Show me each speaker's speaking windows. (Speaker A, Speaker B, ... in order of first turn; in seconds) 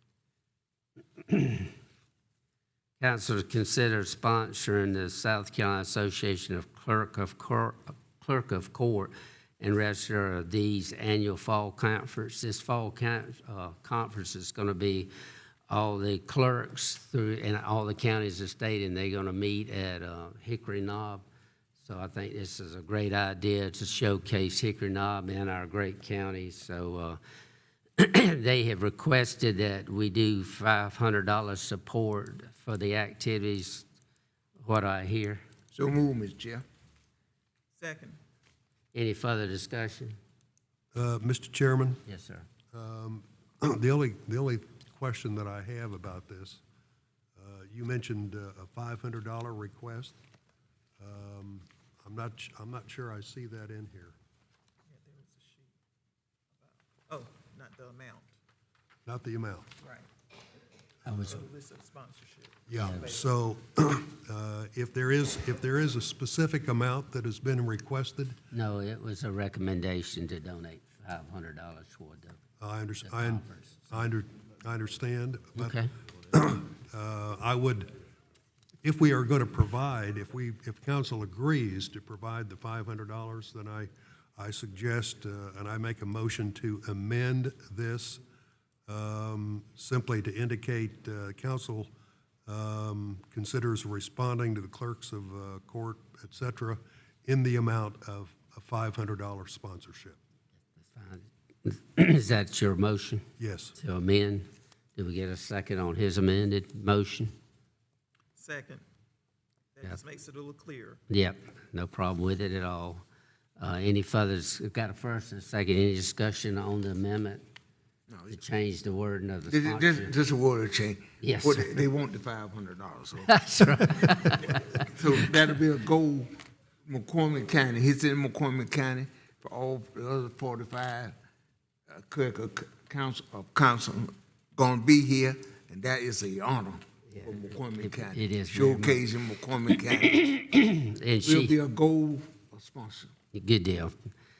Speaker A: 1.2-1.7, 3.0-15.1, 15.7-21.2, 21.8-27.2, 28.0-33.8, 34.6-35.4, 38.9-40.2, 42.0-42.5, 61.0-61.4, 62.7-63.0, 68.5-72.4, 73.0-73.9, 75.5-75.9, 100.8-103.2, 103.8-107.3, 111.1-113.0, 113.6-117.4, 118.3-120.2, 121.2-121.8, 123.2-124.9, 137.1-139.1, 139.8-141.6, 143.3-143.9
Speaker B: 35.7-36.6, 118.1-118.4, 119.5-123.3, 124.8-126.3, 126.8-131.1, 131.9-140.3, 141.2-143.1
Speaker C: 37.8-38.2, 54.9-55.7, 56.6-58.3, 59.8-60.1, 61.3-63.2, 108.4-108.8, 109.8-111.0
Speaker D: 40.9-42.0, 42.7-46.6, 47.4-50.1, 51.0-54.1, 59.0-59.7, 61.0-61.4, 62.7-68.4, 72.6-75.8, 76.3-77.9, 78.8-88.2, 88.9-91.9, 92.5-100.2, 103.4-103.7